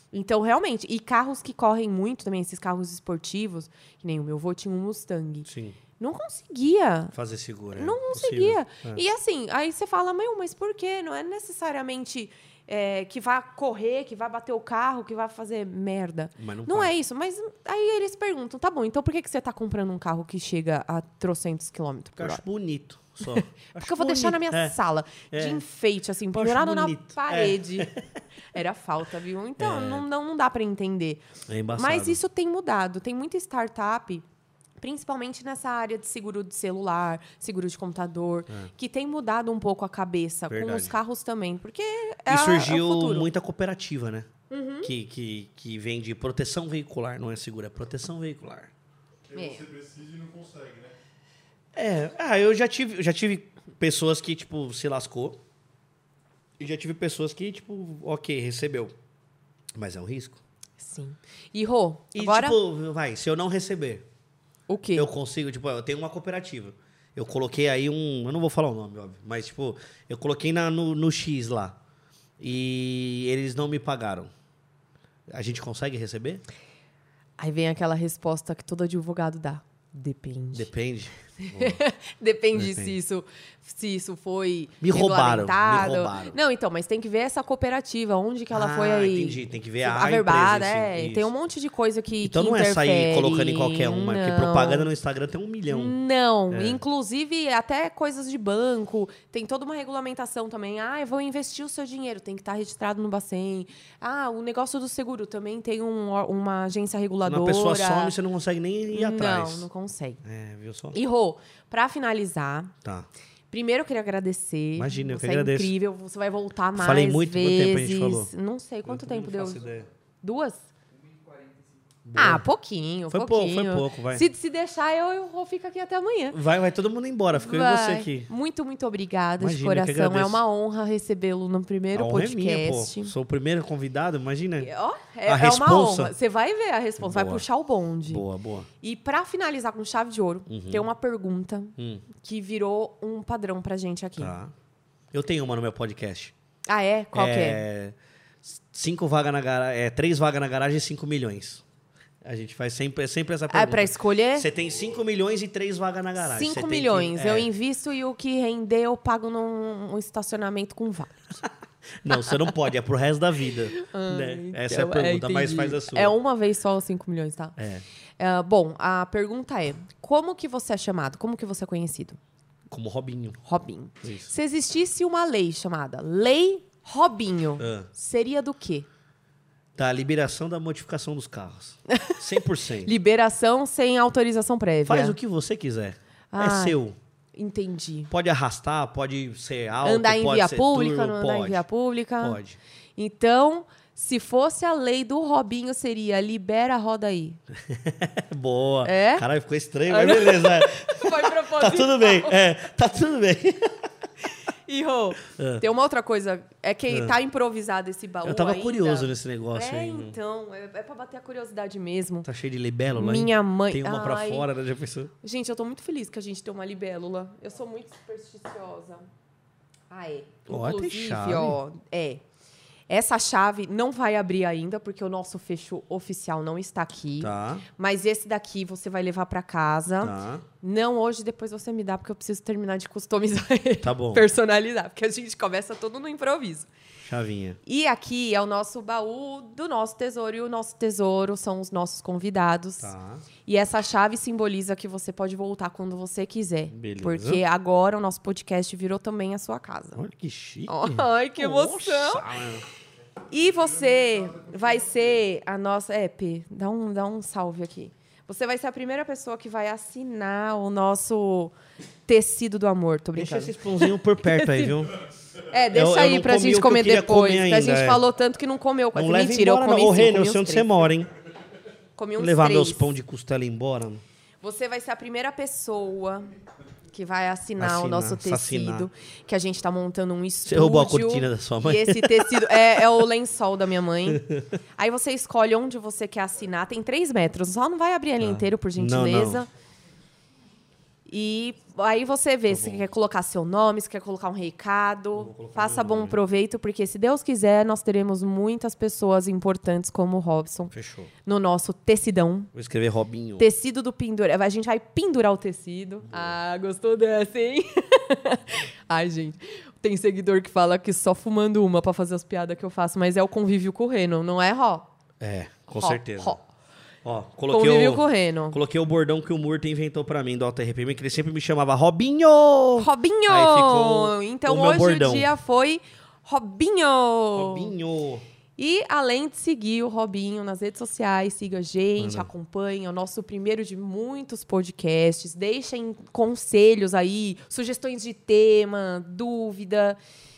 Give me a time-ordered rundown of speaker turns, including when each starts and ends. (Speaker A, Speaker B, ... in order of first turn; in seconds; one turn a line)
Speaker A: 0.1-5.5
Speaker B: 5.5-5.8
Speaker A: 6.0-7.1
Speaker B: 7.1-9.0
Speaker A: 7.7-22.4
Speaker B: 16.4-16.9
Speaker B: 22.2-24.8
Speaker A: 23.3-27.9
Speaker B: 25.3-25.6
Speaker B: 26.3-28.1
Speaker A: 28.5-34.2
Speaker B: 29.6-30.1
Speaker B: 31.5-32.2
Speaker A: 34.8-43.3
Speaker B: 40.5-41.0
Speaker B: 42.3-44.3
Speaker A: 44.5-44.9
Speaker B: 44.8-48.7
Speaker C: 49.3-51.0
Speaker A: 49.3-49.6
Speaker B: 51.7-55.4
Speaker B: 56.6-58.9
Speaker B: 59.8-60.4
Speaker A: 60.8-62.6
Speaker B: 62.1-64.1
Speaker A: 64.7-65.1
Speaker B: 65.0-71.8
Speaker B: 72.4-74.3
Speaker B: 75.3-76.4
Speaker A: 77.4-80.7
Speaker B: 80.5-81.8
Speaker A: 81.4-94.9
Speaker B: 82.5-83.0
Speaker B: 84.8-86.4
Speaker B: 88.5-91.3
Speaker B: 92.2-96.0
Speaker A: 95.7-108.2
Speaker B: 96.5-96.8
Speaker B: 107.2-109.7
Speaker A: 108.9-110.2
Speaker B: 110.2-111.0
Speaker A: 110.9-112.7
Speaker A: 113.5-119.7
Speaker B: 114.8-115.7
Speaker B: 116.8-118.3
Speaker B: 118.8-119.9
Speaker A: 120.2-120.7
Speaker C: 121.3-121.6
Speaker B: 122.0-122.5
Speaker A: 122.2-126.4
Speaker B: 123.1-124.3
Speaker B: 126.3-128.3
Speaker A: 127.3-133.1
Speaker B: 129.4-130.4
Speaker B: 131.9-134.7
Speaker A: 134.6-138.2
Speaker B: 135.2-136.1
Speaker B: 137.0-137.4
Speaker B: 138.1-138.7
Speaker A: 138.8-144.3
Speaker B: 140.5-140.9
Speaker B: 141.8-142.1
Speaker B: 144.2-144.5
Speaker B: 145.1-146.3
Speaker A: 146.7-147.6
Speaker B: 147.1-151.6
Speaker B: 152.2-157.5
Speaker A: 153.5-154.5
Speaker A: 156.2-161.3
Speaker B: 162.0-166.2
Speaker A: 162.1-162.5
Speaker A: 163.7-167.6
Speaker B: 167.6-167.8
Speaker A: 168.2-172.2
Speaker B: 172.7-173.4
Speaker A: 173.4-178.9
Speaker B: 174.0-174.3
Speaker B: 177.6-177.9
Speaker B: 179.8-182.9
Speaker A: 181.9-182.2
Speaker A: 182.8-185.2
Speaker B: 184.9-187.0
Speaker A: 186.3-186.8
Speaker A: 187.3-188.1
Speaker B: 188.1-191.6
Speaker A: 189.8-192.4
Speaker B: 192.2-192.6
Speaker A: 193.0-197.4
Speaker B: 197.7-203.9
Speaker A: 198.8-199.2
Speaker A: 199.9-202.4
Speaker A: 204.7-212.3
Speaker B: 205.3-205.6
Speaker B: 206.9-207.2
Speaker B: 208.2-210.2
Speaker B: 212.2-215.1
Speaker A: 212.9-214.5
Speaker A: 215.2-219.1
Speaker A: 219.9-222.2
Speaker B: 220.5-221.6
Speaker A: 222.9-236.7
Speaker B: 227.2-227.7
Speaker B: 230.0-230.4
Speaker B: 233.8-234.3
Speaker B: 237.0-237.6
Speaker A: 237.7-242.9
Speaker B: 242.8-243.3
Speaker A: 243.4-250.0
Speaker B: 246.7-247.4
Speaker B: 250.0-252.7
Speaker A: 250.7-252.2
Speaker A: 253.3-261.6
Speaker C: 254.0-255.0
Speaker A: 262.1-264.7
Speaker B: 263.2-264.9
Speaker A: 265.5-270.9
Speaker B: 265.7-268.0
Speaker B: 268.9-271.1
Speaker A: 272.0-272.9
Speaker B: 272.2-274.0
Speaker A: 274.4-276.3
Speaker A: 276.9-284.2
Speaker B: 277.6-278.9
Speaker B: 280.5-282.5
Speaker B: 284.1-284.5
Speaker A: 284.8-289.5
Speaker B: 288.2-289.4
Speaker A: 291.1-300.7
Speaker B: 292.5-292.9
Speaker B: 295.1-296.2
Speaker B: 300.7-301.1
Speaker A: 301.2-302.5
Speaker B: 302.5-303.5
Speaker A: 303.4-314.9
Speaker B: 306.1-306.4
Speaker B: 315.2-316.4
Speaker A: 315.8-316.4
Speaker B: 317.0-325.3
Speaker A: 317.5-318.6
Speaker A: 322.8-327.7
Speaker B: 327.4-328.2
Speaker A: 328.6-340.0
Speaker B: 332.0-332.3